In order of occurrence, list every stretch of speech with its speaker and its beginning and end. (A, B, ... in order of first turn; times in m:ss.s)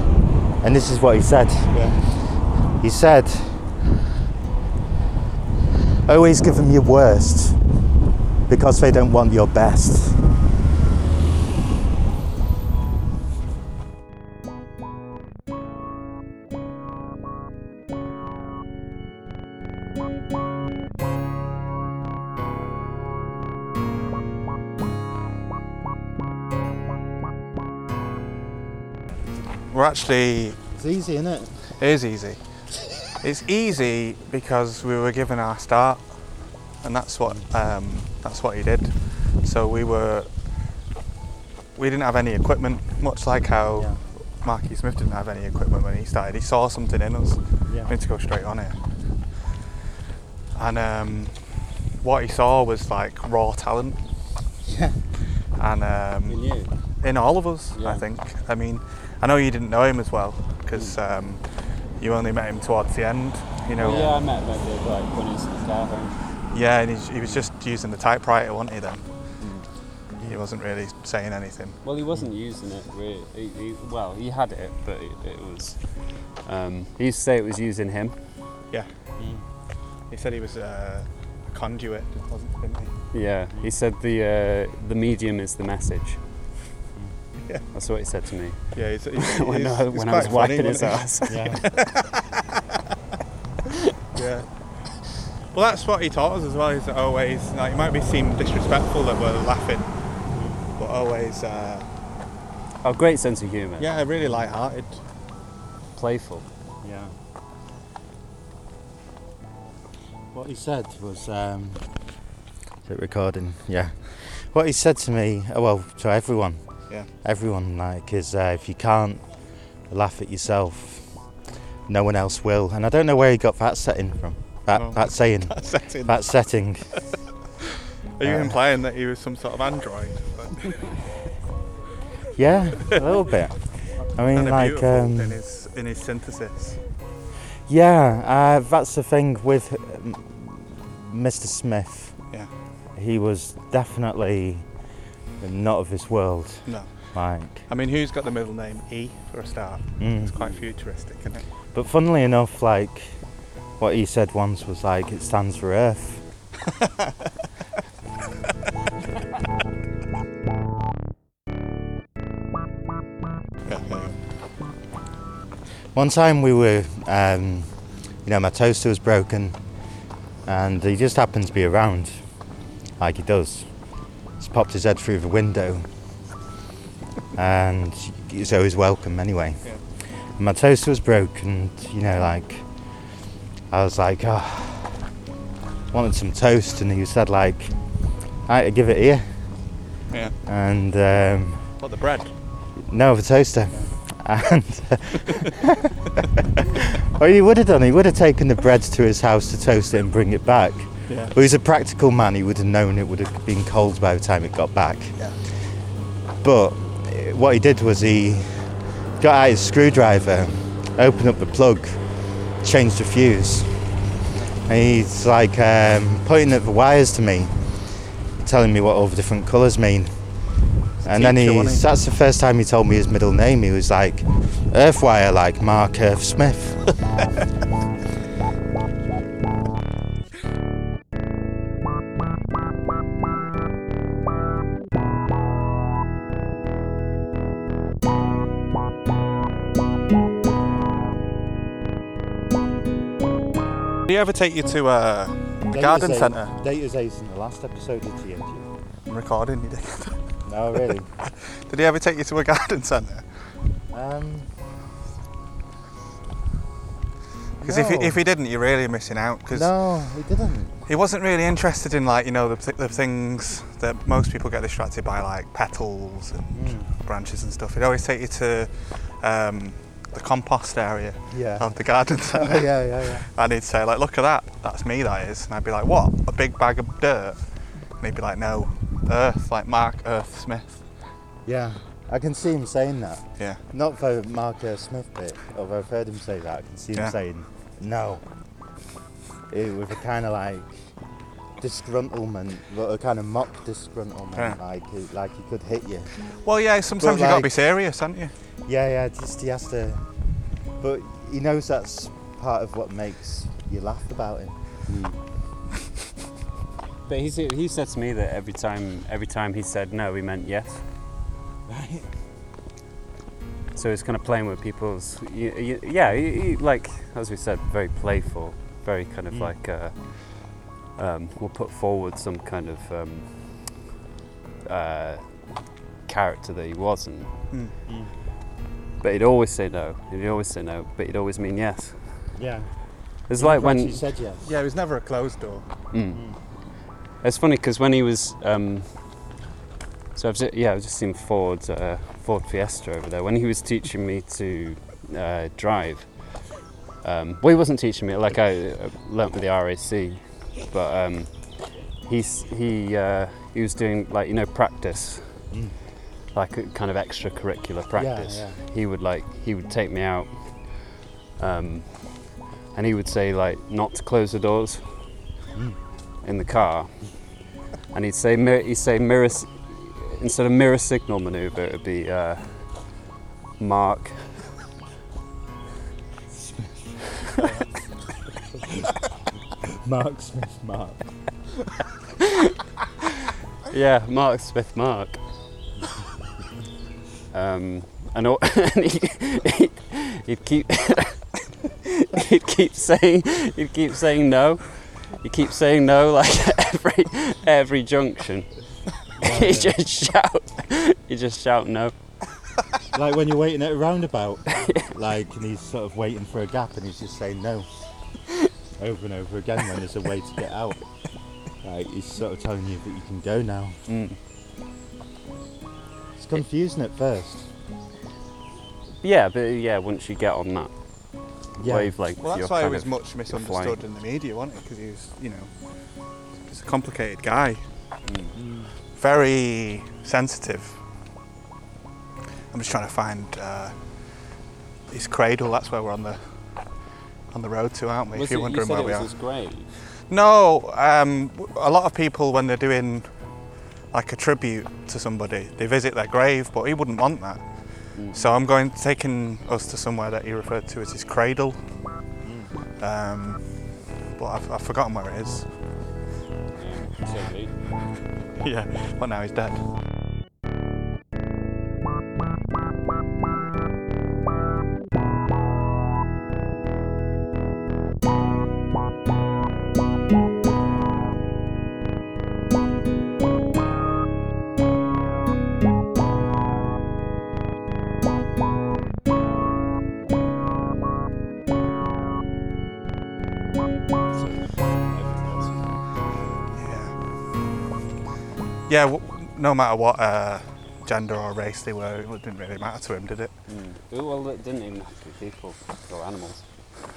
0:00.6-0:02.3 A
0:01.7-0:02.0 B
0:02.8-0:03.7 A
0:06.1-0:07.6 A
0:08.5-0:10.3 A
0:29.7-0:30.6 B
0:30.8-0:31.6 A
0:31.7-0:32.4 B
0:33.1-0:40.3 B
0:41.8-0:48.9 B
0:47.7-0:47.9 A
0:50.6-0:54.0 B
0:54.6-0:55.0 A
0:55.6-0:56.4 B
0:56.3-0:56.7 C
0:57.0-1:04.1 B
0:57.8-0:58.0 C
1:03.8-1:06.2 C
1:06.5-1:09.1 B
1:09.4-1:09.7 C
1:10.2-1:11.8 B
1:11.8-1:18.2 C
1:19.2-1:19.4 A
1:20.1-1:23.0 B
1:23.1-1:26.2 C
1:27.7-1:31.6 C
1:28.7-1:32.4 B
1:31.3-1:31.7 A
1:34.1-1:34.5 B
1:35.5-1:39.9 B
1:40.3-1:40.6 A
1:40.8-1:41.9 B
1:42.8-1:44.0 C
1:43.8-1:45.0 B
1:46.0-1:46.5 C
1:46.8-1:47.1 A
1:50.3-1:52.0 A
1:52.8-1:59.3 A
1:59.8-2:01.2 A
2:01.9-2:07.0 A
2:04.7-2:06.2 B
2:08.2-2:10.9 B
2:08.2-2:08.6 A
2:12.4-2:15.4 A
2:14.3-2:16.8 B
2:17.7-2:22.2 A
2:23.0-2:24.7 A
2:25.4-2:27.7 A
2:26.7-2:27.1 B
2:27.7-2:31.4 B
2:30.0-2:30.4 A
2:31.7-2:33.2 A
2:33.8-2:36.2 A
2:43.6-2:44.2 B
2:45.9-2:49.6 A
2:50.4-2:52.2 A
2:53.0-2:53.7 A
2:54.4-2:55.9 A
2:57.4-2:59.7 A
3:00.4-3:02.9 A
3:03.7-3:05.1 A
3:05.9-3:09.5 A
3:10.1-3:10.4 B
3:10.5-3:11.7 A
3:11.8-3:12.3 B
3:12.8-3:25.2 A
3:21.1-3:21.3 B
3:26.4-3:32.0 A
3:32.6-3:33.7 A
3:34.7-3:37.8 A
3:38.4-3:40.2 A
3:41.0-3:41.8 B
3:41.0-3:46.9 A
4:04.1-4:06.6 B
4:05.7-4:08.7 A
4:09.1-4:10.2 B
4:10.5-4:11.1 A
4:11.3-4:13.5 B
4:13.9-4:14.5 A
4:17.6-4:18.2 A
4:17.6-4:19.7 B
4:19.5-4:20.8 A
4:20.9-4:40.9 B
4:26.5-4:26.9 A
4:31.3-4:31.7 A
4:32.3-4:33.3 A
4:41.4-4:48.2 A
4:49.5-4:50.9 A
4:51.6-4:56.1 A
4:56.4-4:58.3 B
4:57.0-4:57.5 A
4:58.7-5:00.0 A
5:00.8-5:04.6 A
5:04.9-5:05.2 C
5:07.1-5:10.9 C
5:11.7-5:12.1 A
5:13.7-5:23.8 C
5:24.6-5:27.4 C
5:27.9-5:28.1 A
5:29.0-5:32.3 C
5:32.4-5:32.7 A
5:33.3-5:34.0 C
5:33.4-5:34.5 A
5:34.4-5:35.7 B
5:35.9-5:36.3 C
5:36.1-5:36.4 A
5:37.2-5:39.2 C
5:40.2-5:46.5 C
5:47.0-5:55.5 C
5:56.3-6:05.2 C
5:58.0-5:58.6 A
6:06.2-6:07.3 C
6:07.9-6:13.0 C
6:13.6-6:14.5 C
6:16.3-6:17.1 A
6:17.4-6:17.9 B
6:19.8-6:21.1 A
6:23.7-6:25.2 C
6:27.3-6:38.6 C
6:39.2-6:41.9 C
6:39.2-6:39.7 A
6:42.9-6:47.7 A
6:48.8-6:50.8 A
6:51.6-6:53.8 A
6:53.9-6:54.2 C
6:56.2-6:57.5 A
6:59.0-7:03.8 C
7:01.6-7:01.9 A
7:02.2-7:05.5 B
7:06.4-7:07.6 B
7:08.1-7:08.4 C
7:08.4-7:08.7 A
7:08.9-7:10.8 B
7:12.5-7:13.8 B
7:14.9-7:16.8 B
7:17.3-7:19.1 B
7:18.1-7:19.7 C
7:19.8-7:31.7 B
7:27.9-7:28.3 C
7:32.2-7:32.5 A
7:32.8-7:35.6 B
7:36.6-7:37.6 C
7:38.4-7:39.7 B
8:04.1-8:05.8 C
8:06.5-8:07.0 B
8:08.7-8:13.3 B
8:13.5-8:16.5 C